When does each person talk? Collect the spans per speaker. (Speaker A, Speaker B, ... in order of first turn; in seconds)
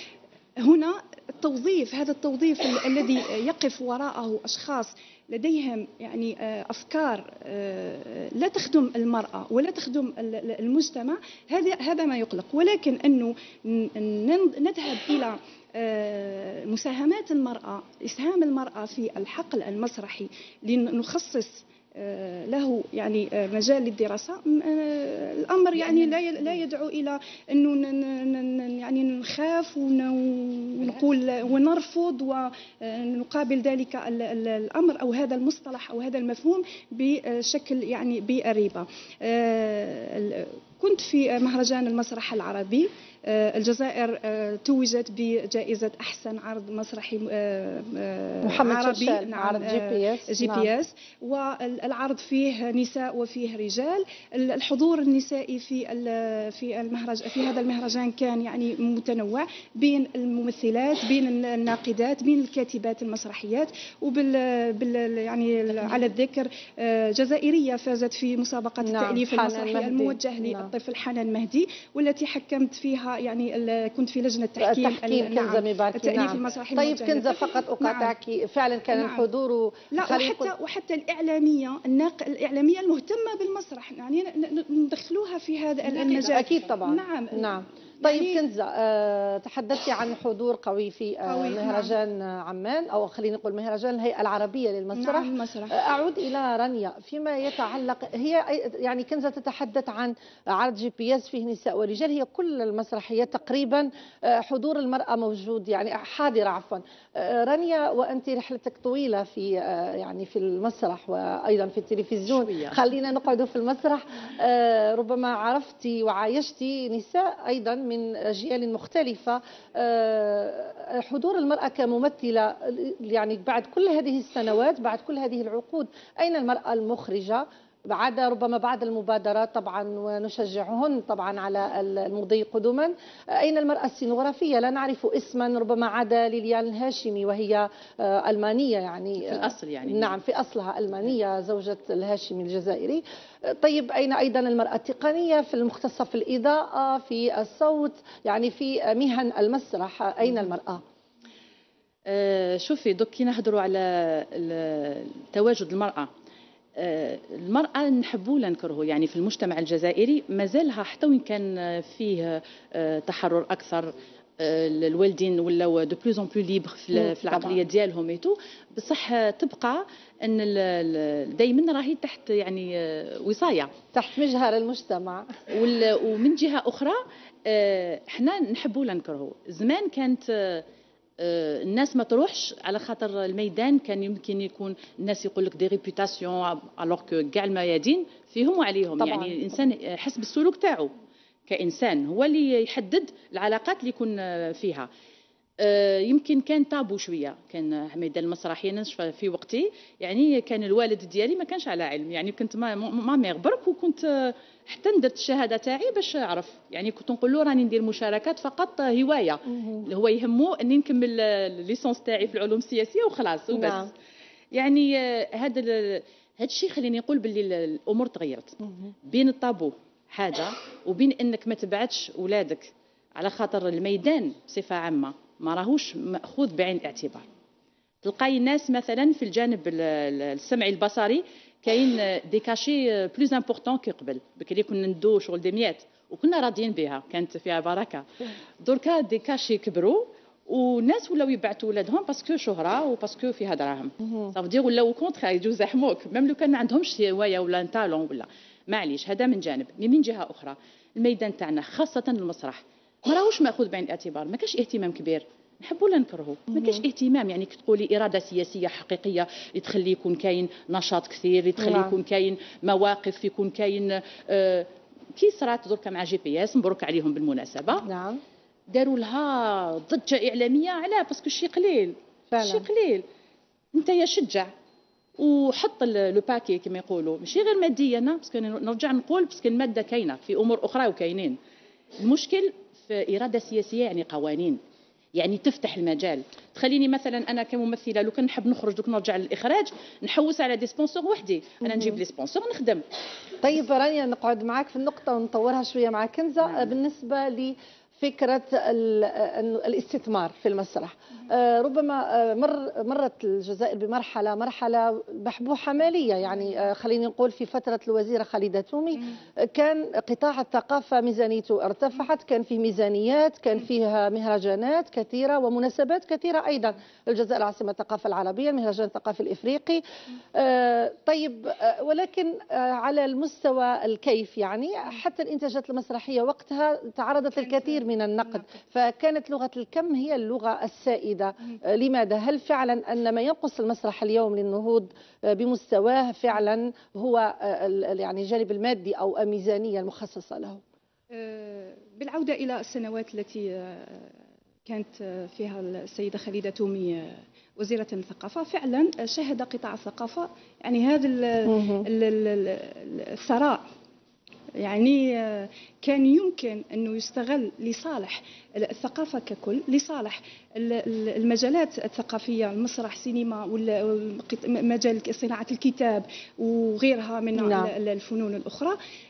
Speaker A: 0.6-78.1, 78.9-79.2, 79.9-88.4, 91.2-91.9, 94.9-95.8, 341.1-344.1, 344.6-353.6, 354.6-368.8
Speaker B: 48.4-50.7, 68.8-70.7, 74.6-80.5, 86.2-150.8, 166.9-167.6, 173.9-175.3, 189.0-189.4, 209.5-209.8, 213.5-213.9, 256.5-256.8, 261.6-261.9, 267.8-268.2, 272.3-272.6, 291.7-292.0, 293.4-319.8, 320.3-340.6, 351.5-351.9, 367.3-367.7
Speaker C: 86.0-86.3, 112.3-112.8, 139.2-140.2, 152.1-156.1, 156.8-173.7, 175.5-180.6, 181.2-190.9, 191.5-194.9, 195.6-213.9, 214.5-227.2, 228.0-238.1, 238.6-267.9, 268.7-273.1, 273.7-274.5, 275.2-281.4, 282.0-284.6, 285.1-292.8